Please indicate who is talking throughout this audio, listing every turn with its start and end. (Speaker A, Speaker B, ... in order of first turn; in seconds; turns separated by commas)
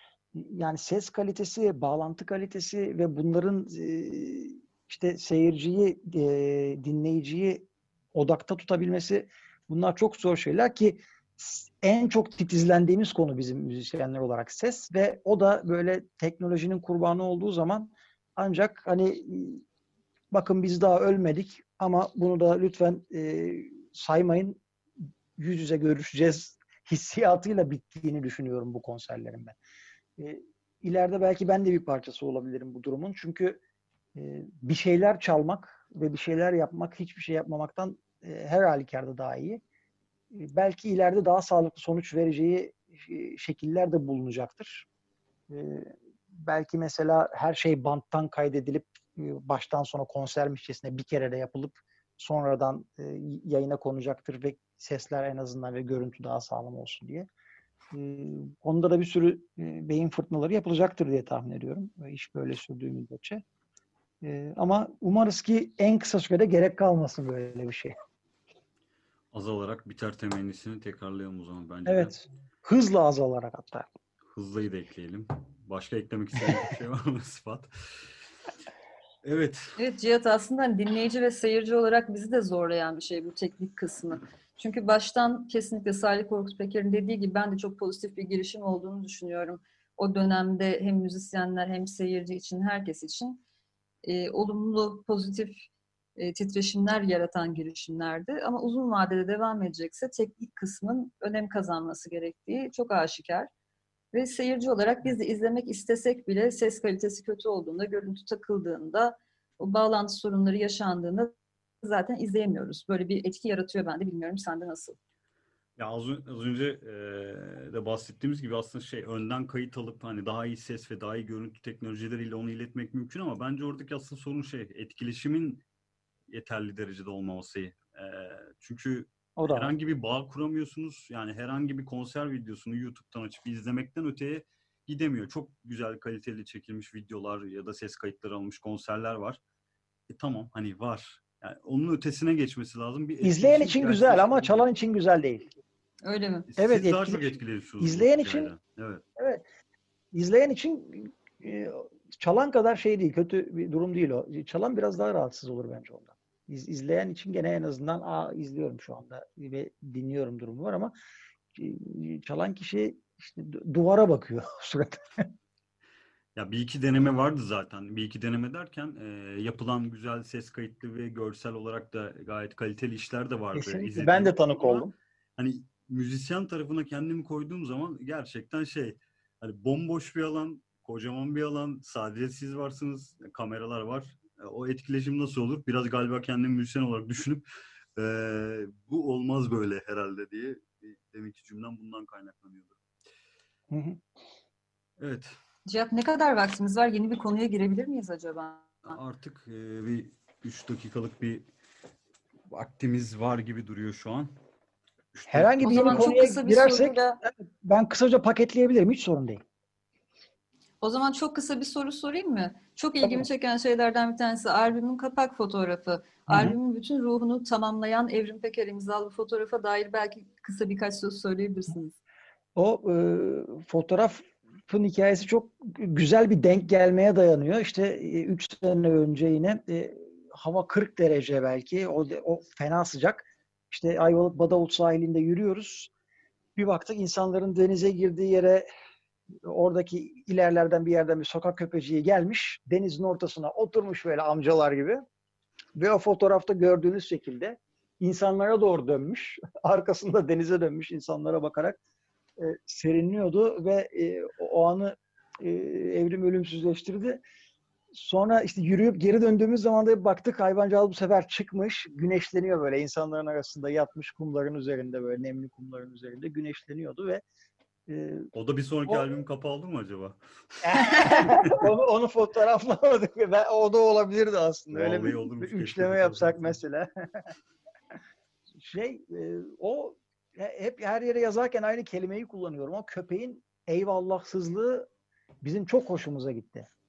Speaker A: 0.3-19.6, Speaker A: 20.3-24.6, Speaker A: 25.4-29.6, Speaker A: 30.2-33.6, Speaker A: 34.1-39.6, Speaker A: 40.3-44.9, Speaker A: 45.5-57.3, Speaker A: 57.9-63.4, Speaker A: 64.2-67.9, Speaker B: 69.3-72.2, Speaker A: 71.8-73.9, Speaker B: 74.3-78.1, Speaker B: 79.2-79.8, Speaker C: 79.8-93.4, Speaker C: 94.0-95.6, Speaker C: 96.2-103.5, Speaker C: 104.1-115.0, Speaker B: 115.8-125.6, Speaker B: 126.3-139.4, Speaker A: 129.4-129.7, Speaker B: 140.1-144.6, Speaker A: 143.2-145.5, Speaker C: 146.0-146.5, Speaker B: 146.5-149.0, Speaker A: 146.6-148.5, Speaker A: 149.2-149.4, Speaker A: 150.1-160.9, Speaker A: 161.5-165.2, Speaker B: 166.3-174.8, Speaker A: 173.5-174.9, Speaker B: 175.4-187.4, Speaker B: 188.0-192.8, Speaker A: 193.7-194.0, Speaker B: 195.0-195.3, Speaker C: 195.7-199.0, Speaker B: 198.8-201.5, Speaker B: 202.5-204.3, Speaker B: 205.1-206.1, Speaker A: 205.3-209.4, Speaker C: 205.6-207.2, Speaker C: 210.8-221.9, Speaker A: 216.3-216.6, Speaker A: 222.6-235.9, Speaker A: 236.6-238.6, Speaker A: 239.4-245.0, Speaker A: 245.8-251.8, Speaker A: 252.4-257.2, Speaker A: 257.9-267.2, Speaker A: 267.9-268.3, Speaker B: 268.3-271.6, Speaker A: 270.6-276.9, Speaker C: 270.8-271.2, Speaker B: 274.7-276.6, Speaker A: 278.6-284.9, Speaker A: 285.4-286.7